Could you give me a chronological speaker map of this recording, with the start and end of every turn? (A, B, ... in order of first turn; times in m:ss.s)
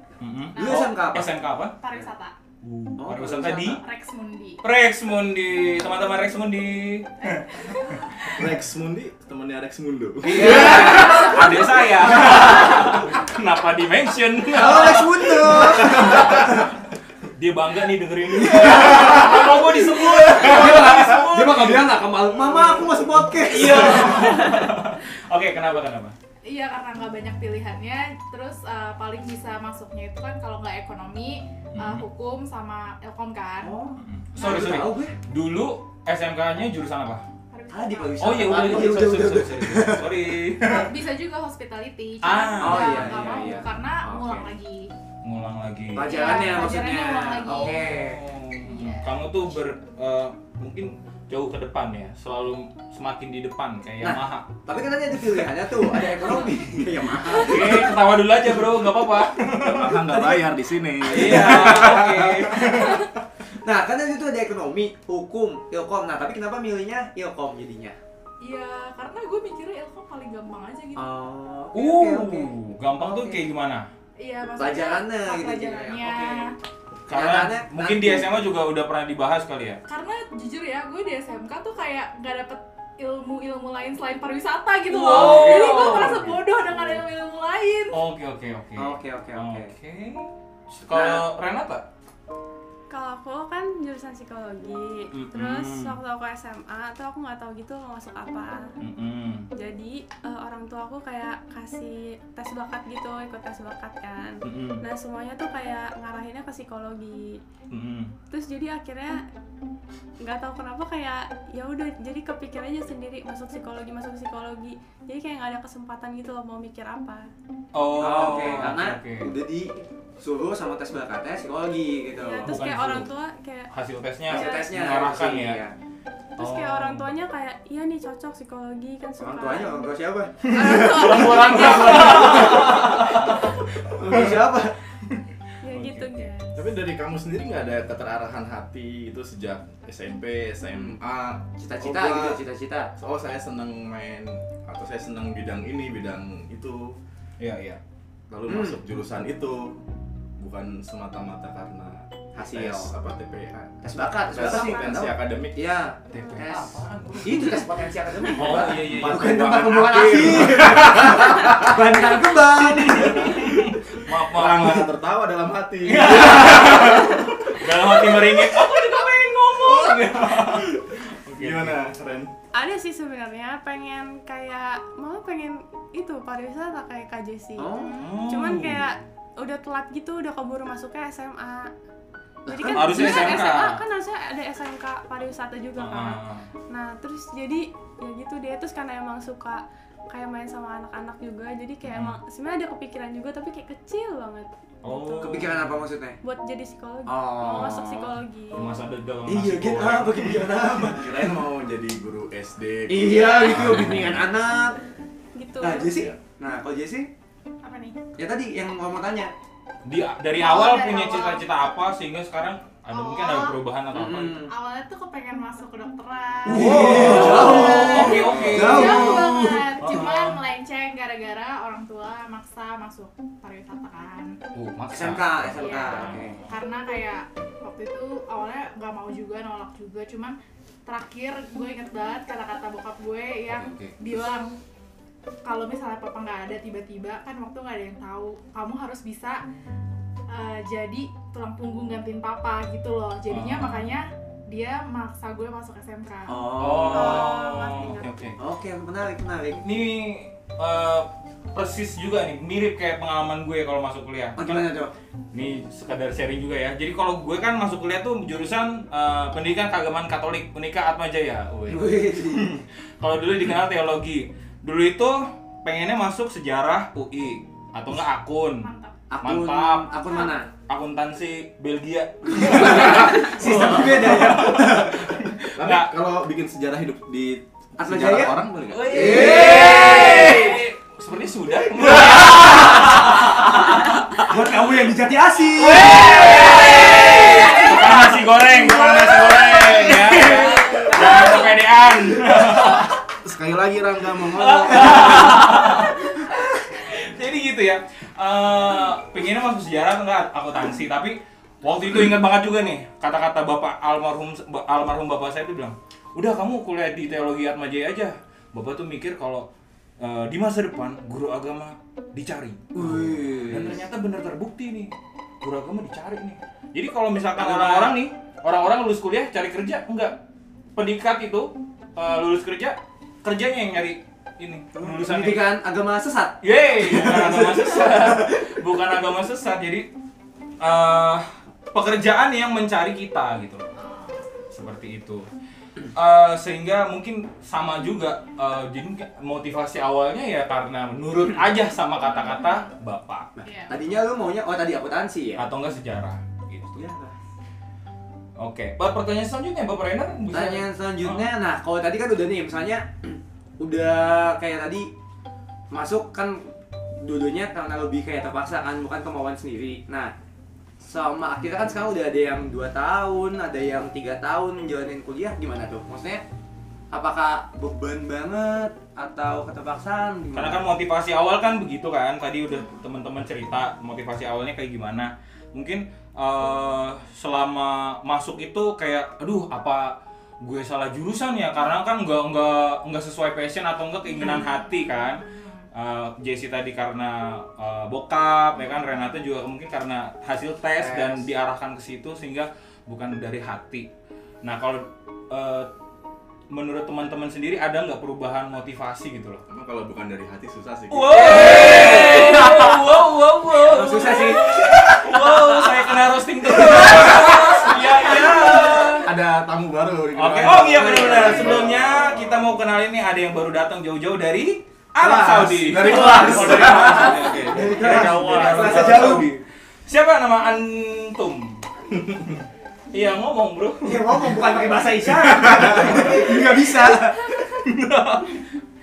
0:00.2-0:01.8 A
0:00.5-0:01.0 B
0:00.6-0:01.3 C
0:01.8-0:02.3 B
0:02.6-0:03.8 A
0:03.0-0:03.7 C
0:03.6-0:04.6 B
0:04.6-0:08.4 A
0:07.3-0:08.0 B
0:08.4-0:11.2 D
0:10.2-0:16.6 A
0:10.3-0:11.3 C
0:14.5-0:16.6 C
0:17.4-0:22.0 A
0:18.4-0:24.5 C
0:23.4-0:26.1 A
0:26.4-0:33.8 B
0:31.7-0:32.0 A
0:33.6-0:35.2 C
0:34.0-0:37.2 A
0:34.4-0:34.9 B
0:37.5-0:39.0 B
0:37.7-0:40.4 C
0:38.2-0:40.9 A
0:40.6-0:44.9 B
0:42.2-0:43.4 A
0:42.6-0:44.5 C
0:45.2-0:46.7 A
0:45.9-0:48.2 C
0:46.0-0:48.0 B
0:47.5-0:54.6 A
0:48.5-0:49.1 B
0:54.0-0:57.9 C
0:57.2-1:00.0 A
0:59.6-1:03.0 D
1:00.0-1:00.5 C
1:01.0-1:02.9 A
1:01.1-1:01.8 C
1:03.6-1:08.0 C
1:08.4-1:11.1 B
1:11.0-1:13.4 C
1:11.7-1:13.9 A
1:14.2-1:16.5 B
1:14.6-1:16.3 C
1:16.0-1:16.4 A
1:17.1-1:19.8 A
1:17.1-1:18.3 C
1:19.9-1:28.0 B
1:24.9-1:26.4 A
1:25.0-1:26.0 C
1:27.9-1:31.8 A
1:28.8-1:29.7 C
1:30.9-1:31.2 C
1:32.9-1:38.7 E
1:35.1-1:36.0 A
1:38.8-1:39.5 A
1:39.5-1:47.4 E
1:44.4-1:44.8 A
1:47.7-1:48.1 A
1:48.3-1:49.2 E
1:50.2-1:57.3 E
1:57.7-1:59.3 A
1:58.0-2:02.5 C
2:02.2-2:03.7 E
2:02.4-2:03.1 A
2:03.7-2:05.6 A
2:04.3-2:05.7 C
2:04.3-2:04.7 E
2:06.4-2:09.9 E
2:06.4-2:07.1 A
2:09.2-2:14.8 C
2:10.5-2:13.2 A
2:10.5-2:12.4 E
2:10.8-2:11.1 B
2:15.6-2:16.6 E
2:15.7-2:16.3 A
2:16.5-2:22.4 D
2:21.6-2:22.9 C
2:23.0-2:27.0 D
2:27.4-2:27.8 A
2:28.3-2:29.8 D
2:28.5-2:28.8 C
2:30.4-2:35.6 D
2:32.4-2:32.9 C
2:33.8-2:43.3 C
2:36.1-2:37.6 A
2:38.2-2:40.8 A
2:38.4-2:41.8 D
2:42.6-2:44.8 A
2:42.9-2:43.7 D
2:44.2-2:48.2 D
2:45.8-2:51.8 A
2:49.6-2:52.3 D
2:52.5-3:01.7 E
2:57.6-2:58.0 C
2:58.0-2:58.9 A
3:02.4-3:03.3 C
3:02.5-3:15.6 E
3:02.7-3:03.8 A
3:05.8-3:06.4 A
3:11.8-3:12.2 A
3:14.8-3:15.8 A
3:15.2-3:16.2 C
3:16.2-3:18.7 E
3:17.1-3:18.2 C
3:18.5-3:20.6 A
3:19.2-3:21.2 C
3:20.8-3:24.1 D
3:22.9-3:24.9 C
3:23.6-3:24.1 A
3:25.3-3:26.0 E
3:25.6-3:27.1 C
3:25.9-3:26.2 D
3:27.6-3:28.0 B
3:28.2-3:29.3 C
3:29.8-3:34.4 A
3:30.3-3:31.5 B
3:32.9-3:33.6 B
3:33.9-3:34.5 C
3:34.5-3:44.4 B
3:36.4-3:39.7 C
3:36.5-3:40.4 A
3:44.5-3:46.4 A
3:44.9-3:46.4 C
3:45.5-3:54.5 B
3:55.4-3:59.4 B
4:00.3-4:08.0 B
4:03.3-4:03.9 A
4:06.3-4:07.4 C
4:06.6-4:08.4 A
4:07.2-4:08.0 E
4:08.4-4:09.6 C
4:09.6-4:14.6 A
4:14.4-4:14.9 C
4:15.3-4:28.7 A
4:21.7-4:22.5 C
4:28.6-4:29.2 B
4:29.1-4:30.5 C
4:29.2-4:30.0 A
4:29.9-4:30.4 B
4:30.7-4:35.9 A
4:32.3-4:34.9 C
4:35.5-4:40.2 D
4:37.8-4:40.6 C
4:38.7-4:44.3 A
4:44.2-4:47.7 C
4:45.5-4:52.9 A
4:48.9-4:51.1 C
4:53.2-4:55.8 D
4:54.4-5:09.5 A
5:10.0-5:20.2 A
5:12.7-5:13.8 C
5:17.4-5:18.0 C
5:20.8-5:25.5 A
5:24.8-5:28.4 C
5:26.4-5:29.9 A
5:30.6-5:33.7 A
5:33.7-5:34.2 B
5:34.5-5:35.3 A
5:35.9-5:43.3 A
5:42.1-5:42.7 B
5:43.4-5:45.4 C
5:43.4-5:43.8 B
5:45.4-5:46.8 A
5:46.7-5:47.1 C
5:48.4-5:51.3 A
5:50.3-5:54.9 C
5:55.7-6:00.1 C
6:00.8-6:06.2 C
6:06.9-6:10.6 C
6:10.3-6:25.2 A
6:24.2-6:25.6 B
6:25.7-6:33.9 A
6:30.8-6:31.2 C
6:34.4-6:35.7 A
6:36.5-6:39.4 A
6:39.5-6:42.2 D
6:40.9-6:49.1 A
6:41.3-6:42.7 C
6:43.6-6:44.7 C
6:49.0-6:52.5 D
6:50.1-7:04.6 A
6:50.6-6:51.6 C
6:55.0-6:59.0 D
6:55.7-6:59.4 C
7:03.8-7:07.3 C
7:05.5-7:06.3 A
7:07.4-7:08.4 A